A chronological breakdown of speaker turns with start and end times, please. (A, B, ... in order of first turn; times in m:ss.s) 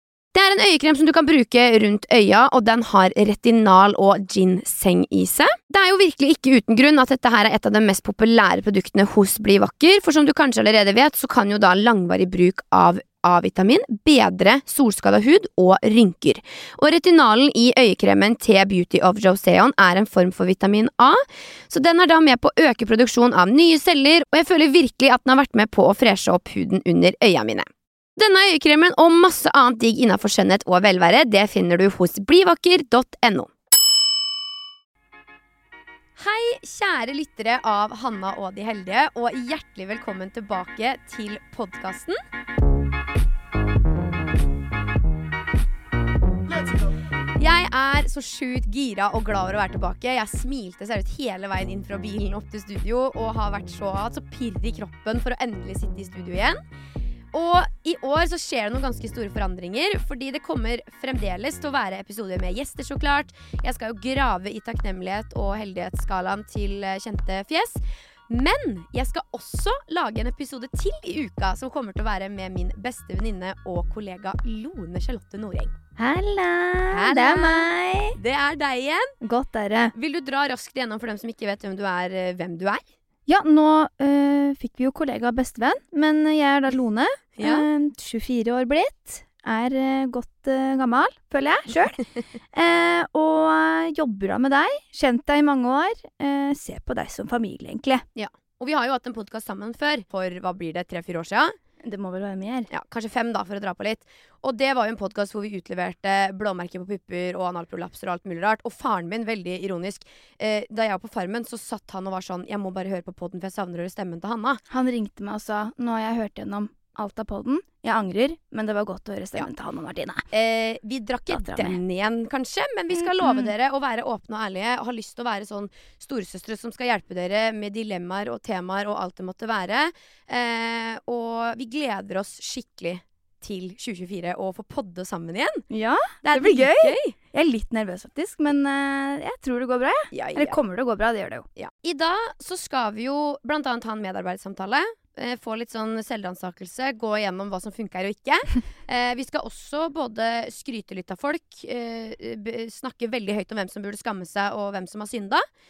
0:00.3-0:33.5 A
0:36.2-0:42.2 A
0:47.4-0:56.6 A
0:57.3-1:15.7 A
1:16.0-1:18.2 B
1:16.9-1:19.2 A
1:19.2-1:20.0 B
1:19.9-1:22.8 A
1:23.3-1:32.0 B
1:27.4-1:27.7 A
1:32.5-1:38.0 B
1:38.2-1:41.6 A
1:41.8-1:42.7 B
1:42.7-1:54.6 A
1:54.7-2:00.2 B
2:00.3-2:15.7 A
2:01.3-2:01.8 B
2:03.0-2:03.5 B
2:15.7-2:21.5 B
2:16.2-2:17.2 A
2:20.1-2:20.6 A
2:21.6-2:35.4 A